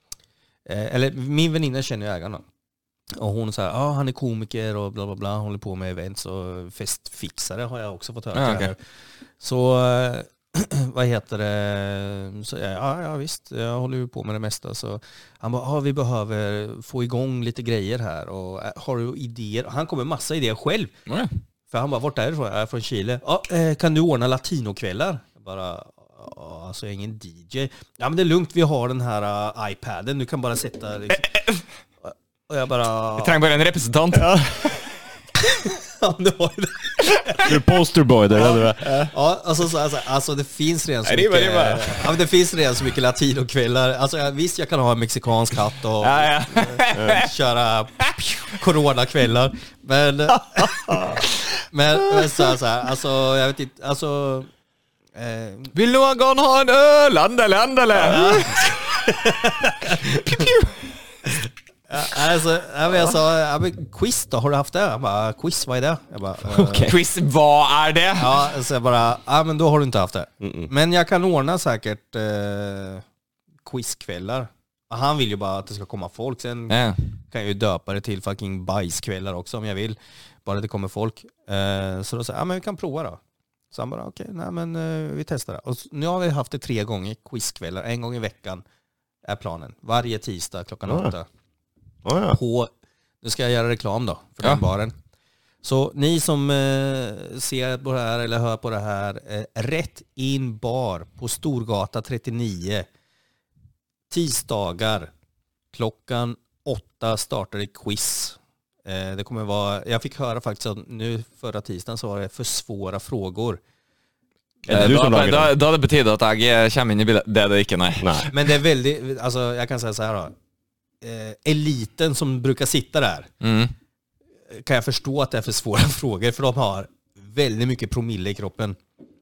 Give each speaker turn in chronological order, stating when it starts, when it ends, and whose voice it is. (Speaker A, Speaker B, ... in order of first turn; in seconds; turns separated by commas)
Speaker A: 0.7-2.4, Speaker A: 3.2-8.8, Speaker B: 8.3-8.7, Speaker A: 9.4-20.9, Speaker A: 21.7-31.3, Speaker A: 32.0-33.4, Speaker B: 33.2-34.4, Speaker C: 34.1-34.6, Speaker A: 35.4-37.5, Speaker C: 37.4-38.8, Speaker A: 38.4-54.5, Speaker B: 38.9-39.1, Speaker B: 41.1-42.0, Speaker B: 46.0-47.3, Speaker C: 50.6-51.2, Speaker A: 55.1-55.7, Speaker B: 55.8-59.1, Speaker A: 58.0-60.5, Speaker B: 59.9-60.7, Speaker A: 61.3-66.9, Speaker B: 66.5-68.5, Speaker A: 68.2-73.0, Speaker C: 70.4-70.7, Speaker A: 73.6-76.8, Speaker B: 76.7-77.0, Speaker A: 77.3-83.2, Speaker A: 83.7-88.6, Speaker A: 89.2-91.3, Speaker C: 90.9-91.1, Speaker C: 92.0-92.4, Speaker A: 92.3-94.9, Speaker A: 95.6-102.9, Speaker A: 104.1-105.1, Speaker A: 105.7-113.6, Speaker C: 114.7-115.6, Speaker B: 114.7-118.3, Speaker C: 118.0-118.3, Speaker A: 118.3-120.3, Speaker A: 121.0-123.3, Speaker B: 123.4-123.7, Speaker A: 124.5-128.8